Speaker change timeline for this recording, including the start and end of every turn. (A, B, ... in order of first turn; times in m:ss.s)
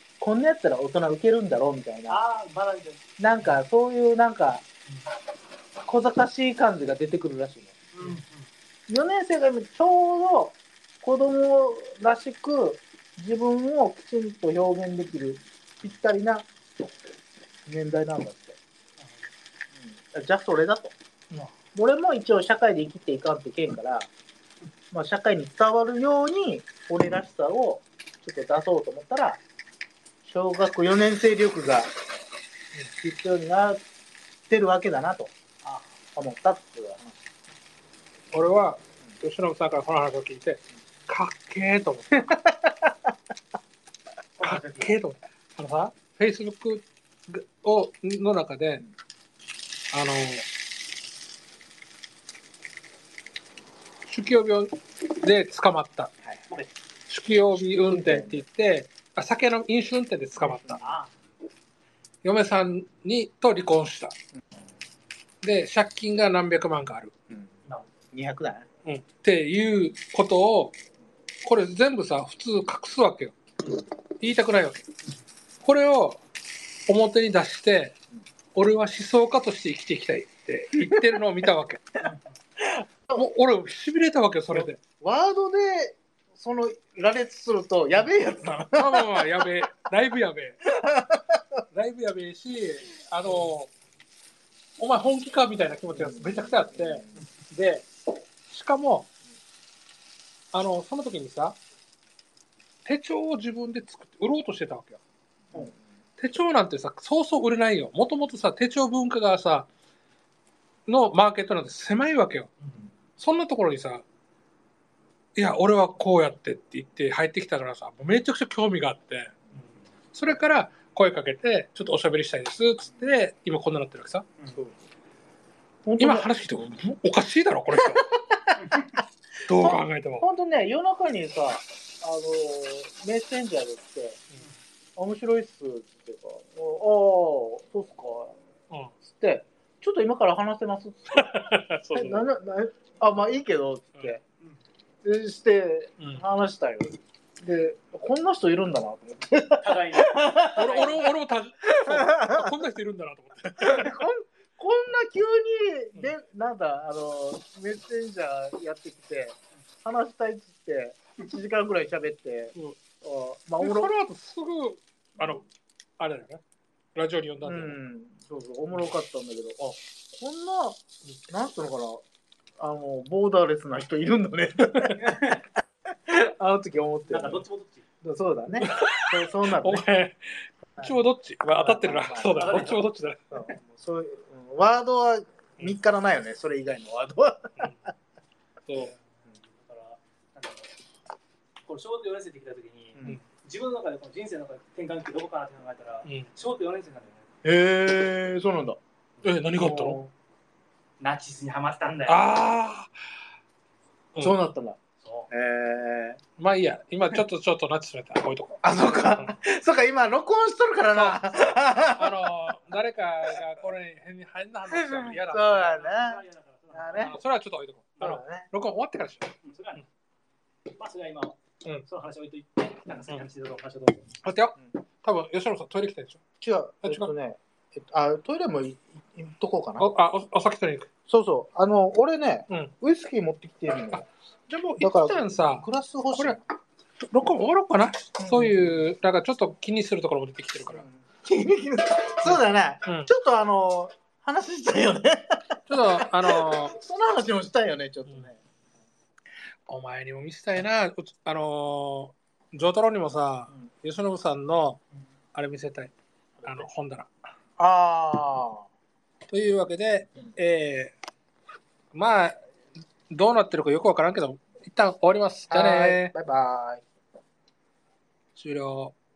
0:00.2-0:02.2 A
0:02.1-0:03.6 B
0:03.2-0:04.6 A
0:05.8-0:07.8 A
0:07.9-0:08.5 B
0:08.9-0:16.5 A
0:17.7-0:18.6 A
0:19.0-0:19.3 B
0:19.8-0:21.0 A
0:21.8-0:24.1 A
0:24.9-0:29.4 A
0:30.2-0:31.9 A
0:33.0-0:33.8 A
0:34.5-0:35.3 A
0:36.2-0:37.2 A
0:38.3-0:42.3 C
0:42.3-0:43.1 A
0:44.4-0:45.0 B
0:44.4-0:48.8 C
0:49.9-0:50.5 C
0:54.1-0:56.1 C
0:57.1-1:00.8 C
0:57.8-0:58.4 A
1:00.4-1:00.9 A
1:00.8-1:01.1 B
1:02.2-1:04.2 C
1:05.4-1:07.1 C
1:08.1-1:08.7 A
1:08.8-1:10.8 C
1:11.4-1:13.4 C
1:14.2-1:14.8 C
1:15.6-1:16.2 C
1:16.9-1:18.0 C
1:18.6-1:22.0 C
1:22.6-1:23.2 A
1:23.2-1:24.8 C
1:24.5-1:29.7 A
1:28.5-1:30.6 C
1:30.7-1:31.6 A
1:31.7-1:33.7 C
1:34.8-1:37.9 C
1:35.9-1:37.1 A
1:38.5-1:39.1 C
1:40.5-1:41.6 C
1:42.8-1:45.0 C
1:46.2-1:49.7 C
1:50.9-1:52.5 C
1:53.2-1:54.0 C
1:55.4-1:59.4 C
2:00.1-2:04.3 C
2:05.8-2:06.3 A
2:06.0-2:08.2 C
2:07.8-2:09.0 A
2:08.6-2:08.9 B
2:09.4-2:10.3 C
2:09.5-2:14.2 A
2:15.0-2:18.4 A
2:19.0-2:24.2 A
2:21.1-2:22.3 C
2:25.0-2:30.9 A
2:29.6-2:31.1 B
2:30.5-2:34.0 C
2:31.7-2:32.6 A
2:33.6-2:44.0 A
2:43.6-2:45.4 C
2:46.0-2:46.4 C
2:47.0-2:47.8 C
2:47.4-2:52.0 A
2:52.6-2:55.5 A
2:54.7-2:55.0 C
2:56.1-2:57.5 A
2:57.1-2:57.9 B
2:58.0-2:59.8 A
2:58.6-3:03.3 C
3:01.6-3:02.8 A
3:02.3-3:02.8 B
3:03.3-3:07.9 A
3:07.6-3:07.8 C
3:08.7-3:08.9 C
3:09.1-3:10.8 B
3:11.7-3:17.3 B
3:17.4-3:18.8 A
3:19.2-3:20.0 C
3:19.6-3:20.1 A
3:21.0-3:22.3 B
3:22.1-3:22.9 C
3:24.2-3:26.2 A
3:25.0-3:25.3 B
3:26.4-3:28.6 C
3:28.6-3:32.3 A
3:31.0-3:31.2 C
3:32.0-3:35.8 C
3:34.7-3:36.2 A
3:35.4-3:37.1 B
3:36.7-3:37.2 A
3:36.9-3:39.4 C
3:38.0-3:38.5 A
3:39.4-3:39.8 B
3:40.7-3:44.1 B
3:44.2-3:46.2 C
3:46.4-3:49.9 A
3:46.8-3:47.1 C
3:49.8-3:50.9 C
3:51.1-3:54.1 A
3:54.5-3:56.4 C
3:54.8-3:56.4 A
3:57.1-4:00.9 C
3:58.2-3:58.8 A
4:00.7-4:08.4 A
4:02.3-4:03.1 C
4:05.7-4:06.8 C
4:09.7-4:14.8 C
4:15.3-4:15.9 C
4:16.4-4:17.1 C
4:17.6-4:18.7 A
4:19.3-4:21.0 C
4:21.9-4:22.4 C
4:23.1-4:26.1 C
4:25.5-4:26.8 A
4:28.4-4:29.0 C